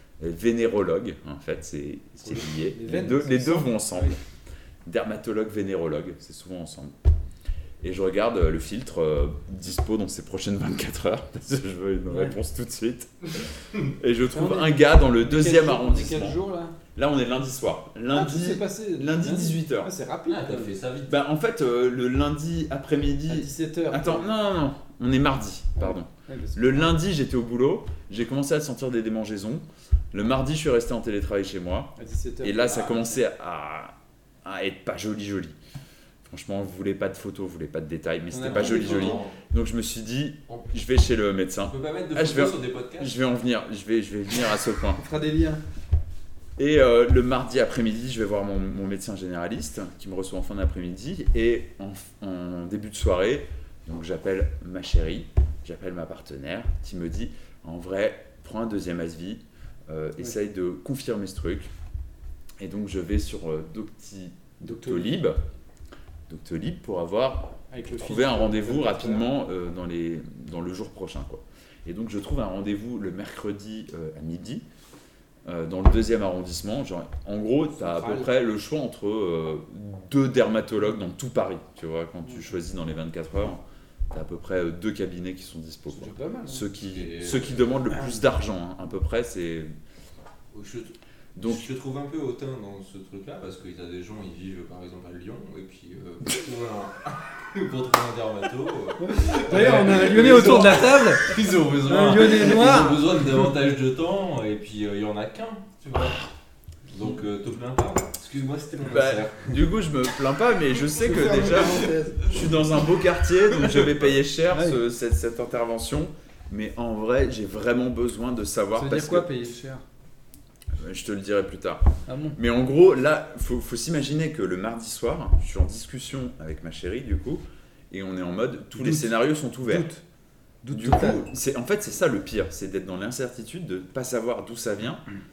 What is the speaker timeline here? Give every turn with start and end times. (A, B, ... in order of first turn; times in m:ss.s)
0:00.2-0:04.2 A
0:02.2-0:04.2 B
0:04.8-0:06.9 A
0:07.8-0:16.4 A
0:14.3-0:16.8 B
0:16.9-0:19.9 A
0:18.1-0:20.7 B
0:20.3-0:21.2 C
0:21.1-0:35.6 A
0:23.3-0:24.3 B
0:25.8-0:26.9 B
0:32.0-0:33.2 B
0:36.2-0:45.0 A
0:38.3-0:39.2 B
0:38.4-0:39.4 C
0:41.7-0:43.1 C
0:45.0-0:45.6 B
0:46.6-1:01.7 A
1:02.6-1:05.4 A
1:04.6-1:05.2 B
1:06.3-1:14.6 A
1:07.7-1:09.3 B
1:15.4-1:29.7 A
1:17.7-1:18.3 B
1:25.9-1:26.7 B
1:26.8-1:27.9 C
1:30.5-1:46.2 C
1:31.4-1:31.6 A
1:39.0-1:41.3 B
1:41.9-1:43.0 B
1:46.9-1:49.6 C
1:48.9-1:59.3 A
1:51.0-1:52.4 B
1:54.5-1:54.8 B
1:58.7-1:59.8 B
2:00.8-2:09.9 A
2:02.0-2:02.4 B
2:08.8-2:10.0 B
2:10.6-2:11.2 B
2:10.7-2:15.0 A